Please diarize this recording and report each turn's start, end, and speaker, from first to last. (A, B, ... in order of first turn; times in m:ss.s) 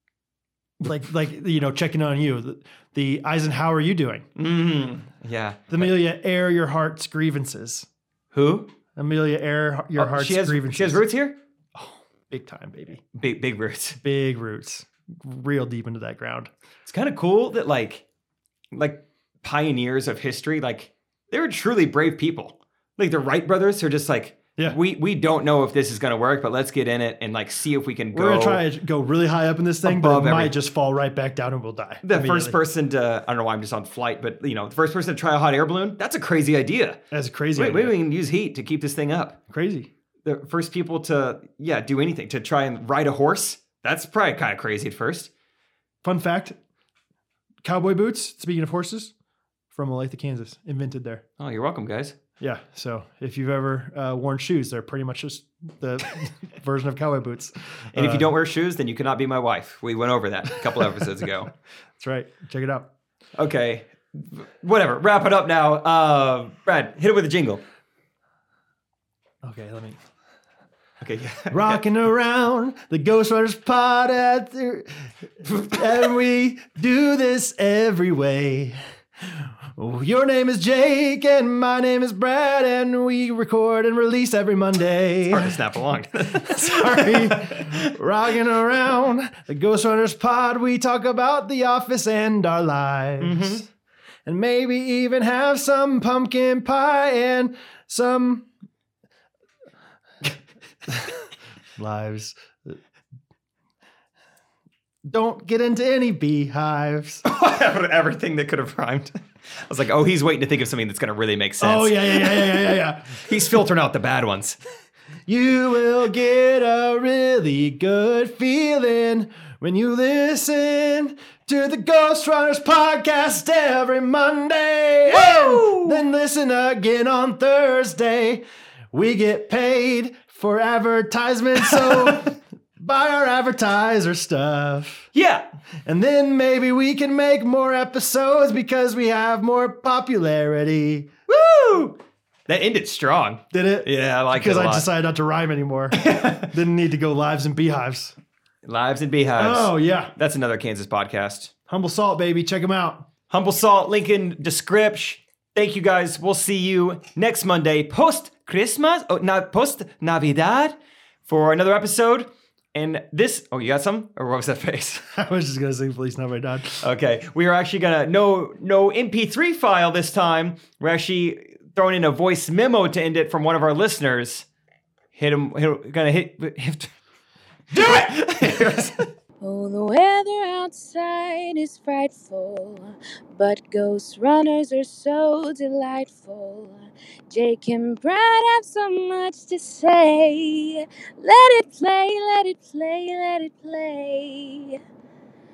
0:00.8-0:04.3 A
0:04.4-0:05.9 B
0:05.7-0:07.9 A
0:08.3-0:08.7 B
0:08.9-0:11.0 A
0:10.0-0:11.4 B
0:11.7-0:13.0 A
0:13.1-0:14.0 B
0:14.0-0:16.5 A
0:16.8-0:18.0 B
0:18.7-0:28.6 B
0:28.1-0:32.6 A
0:29.8-0:30.5 B
0:32.0-0:37.0 B
0:37.1-0:37.9 A
0:37.6-0:39.4 B
0:39.5-0:39.9 A
0:40.2-0:45.3 B
0:46.0-0:46.6 A
0:47.6-0:49.1 A
0:49.7-0:51.2 A
0:51.4-0:52.2 B
0:52.4-0:58.3 A
0:57.9-1:01.5 B
1:02.0-1:02.9 A
1:03.4-1:07.6 B
1:09.4-1:10.0 A
1:11.0-1:11.8 B
1:11.5-1:18.8 A
1:19.4-1:25.6 A
1:25.3-1:27.8 B
1:26.3-1:33.6 A
1:33.2-1:33.6 B
1:34.2-1:38.5 A
1:41.8-1:42.8 A
1:45.1-1:47.2 A
1:47.2-1:54.6 B
1:51.6-1:53.3 A
1:55.3-2:15.1 A
2:05.1-2:06.0 B
2:11.7-2:12.2 B
2:15.1-2:15.5 B
2:15.8-2:21.1 A
2:21.3-2:22.0 B
2:22.5-2:24.8 B
2:23.5-2:28.2 A
2:25.9-2:26.5 B
2:28.6-2:31.5 B
2:29.4-2:30.1 A
2:31.7-2:33.1 A
2:33.3-2:45.0 B
2:45.1-2:46.9 A
2:46.8-2:54.4 B
2:55.1-2:56.9 B
2:57.7-2:58.8 A
2:57.7-2:59.0 B
2:59.4-3:14.8 C